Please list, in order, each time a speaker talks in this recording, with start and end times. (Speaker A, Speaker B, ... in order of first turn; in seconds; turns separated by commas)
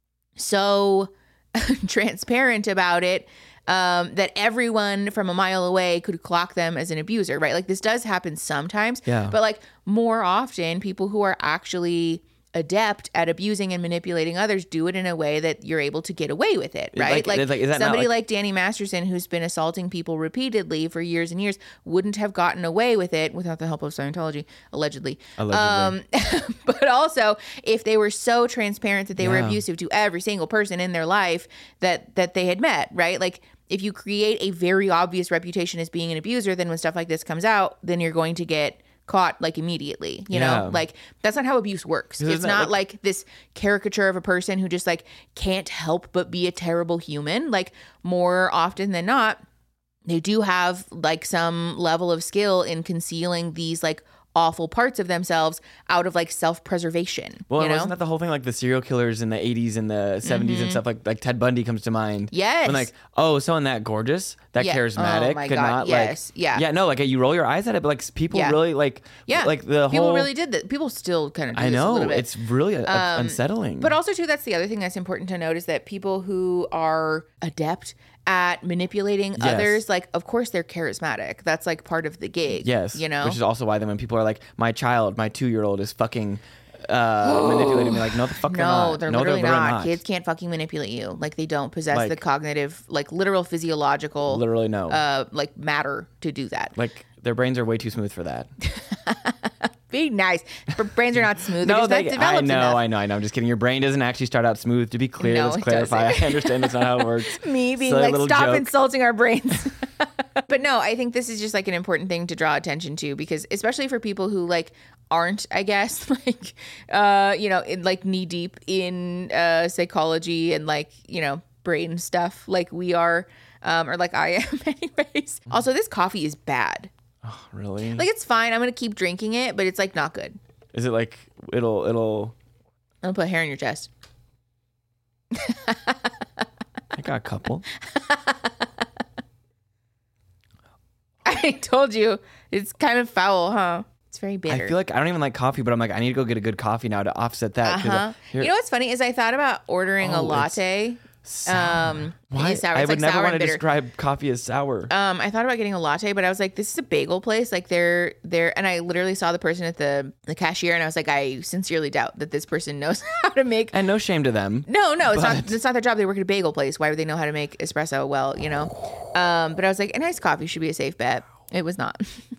Speaker A: 0.4-49.4, Speaker B: 9.1-9.4, Speaker B: 16.9-18.1, Speaker B: 25.4-26.0, Speaker B: 29.2-29.6, Speaker B: 40.3-40.8, Speaker B: 42.2-42.8, Speaker A: 50.1-57.9, Speaker B: 57.5-70.3, Speaker A: 60.2-60.8, Speaker A: 62.3-62.9, Speaker A: 64.6-66.6, Speaker A: 68.3-68.6, Speaker A: 69.3-72.3, Speaker B: 71.5-74.0, Speaker A: 72.9-83.4, Speaker B: 79.4-79.8, Speaker B: 82.6-90.0, Speaker A: 87.2-96.8, Speaker B: 91.9-92.2, Speaker B: 94.3-95.0, Speaker B: 96.8-98.5, Speaker A: 98.6-102.8, Speaker B: 101.6-108.7, Speaker A: 105.2-126.9, Speaker B: 127.2-128.1, Speaker A: 127.9-130.4, Speaker B: 130.7-132.3, Speaker A: 133.0-133.9, Speaker A: 135.3-136.1, Speaker B: 136.9-137.7, Speaker A: 137.9-138.8, Speaker A: 141.2-144.8, Speaker B: 144.5-148.5, Speaker A: 147.6-153.6, Speaker B: 150.0-150.6, Speaker B: 151.2-154.9, Speaker A: 154.9-163.8, Speaker B: 163.7-165.5, Speaker A: 164.7-172.2